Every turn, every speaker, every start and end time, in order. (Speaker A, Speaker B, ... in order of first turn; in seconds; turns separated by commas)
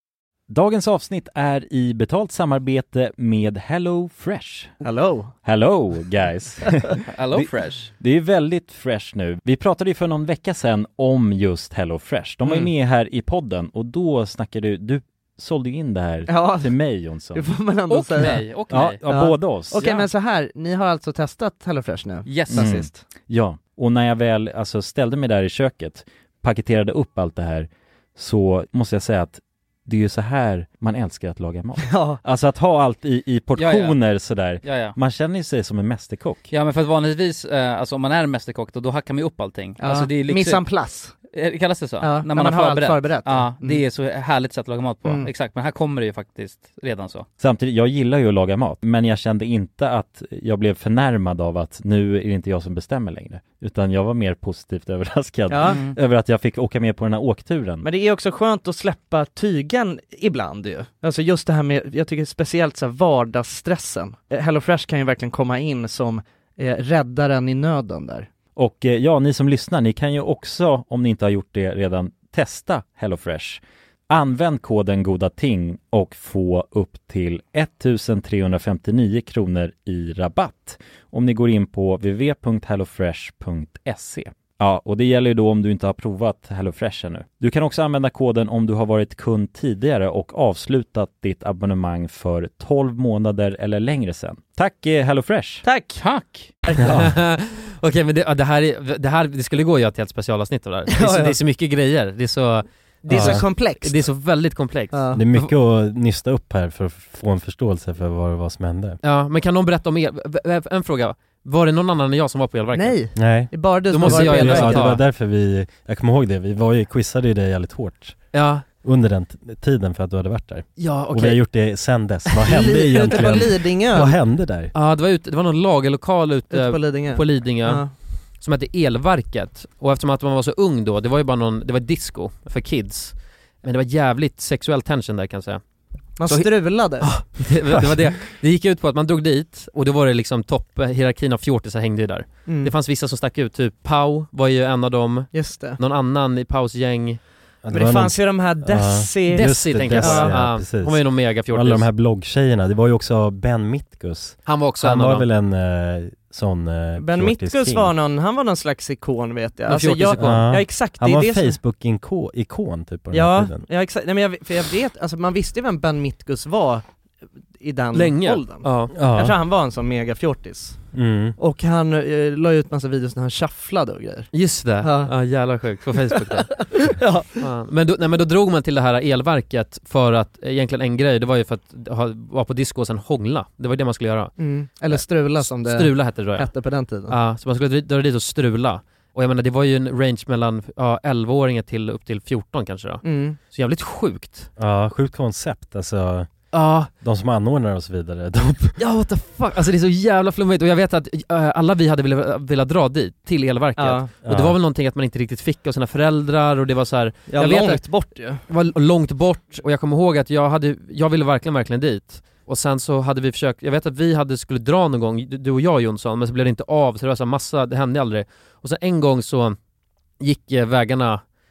Speaker A: 0.5-4.7, Speaker B: 4.8-5.3, Speaker A: 5.4-17.5, Speaker C: 7.1-7.9, Speaker B: 16.3-16.7, Speaker B: 17.3-18.4, Speaker D: 17.9-19.0, Speaker A: 18.2-19.9, Speaker B: 19.1-23.0, Speaker D: 19.8-20.0, Speaker D: 22.2-22.6, Speaker A: 22.5-36.5, Speaker B: 31.8-32.2, Speaker C: 33.6-33.9, Speaker C: 34.6-34.9, Speaker C: 36.5-40.6, Speaker B: 39.8-41.1, Speaker C: 41.3-47.2, Speaker B: 42.0-43.8, Speaker B: 45.0-45.3, Speaker A: 47.4-57.9, Speaker B: 55.5-55.8, Speaker B: 57.8-68.3, Speaker A: 68.5-95.6, Speaker B: 95.6-96.0, Speaker C: 96.0-96.5, Speaker E: 96.8-97.2, Speaker D: 96.9-105.5, Speaker B: 100.9-101.4, Speaker B: 103.0-104.1, Speaker E: 103.1-103.4, Speaker B: 104.9-105.2, Speaker E: 105.1-109.0, Speaker D: 109.0-113.0, Speaker B: 112.7-115.0, Speaker E: 113.2-124.7, Speaker D: 113.9-115.0, Speaker D: 118.3-118.6, Speaker D: 120.8-121.4, Speaker B: 122.4-124.2, Speaker D: 124.7-127.8, Speaker B: 126.5-127.9, Speaker D: 128.4-135.6, Speaker B: 136.2-137.4, Speaker D: 136.2-147.2, Speaker B: 142.4-142.7, Speaker B: 145.3-145.8, Speaker E: 147.6-157.9, Speaker B: 147.7-150.4, Speaker D: 149.3-151.9, Speaker D: 154.4-155.3, Speaker B: 157.0-161.6, Speaker D: 159.7-160.5, Speaker E: 160.2-163.6, Speaker B: 163.1-166.8, Speaker B: 167.6-175.1, Speaker D: 167.9-168.9, Speaker E: 168.9-169.3, Speaker E: 170.9-171.4, Speaker D: 174.3-176.7, Speaker B: 176.1-177.3, Speaker D: 177.4-184.3, Speaker B: 184.4-187.2, Speaker D: 184.9-186.5, Speaker D: 187.1-194.5, Speaker B: 193.0-193.4, Speaker E: 194.6-196.3, Speaker D: 196.5-196.9, Speaker E: 196.9-198.8, Speaker D: 198.8-219.6, Speaker B: 203.8-204.1, Speaker E: 204.2-204.6, Speaker B: 207.3-208.4, Speaker D: 220.2-221.2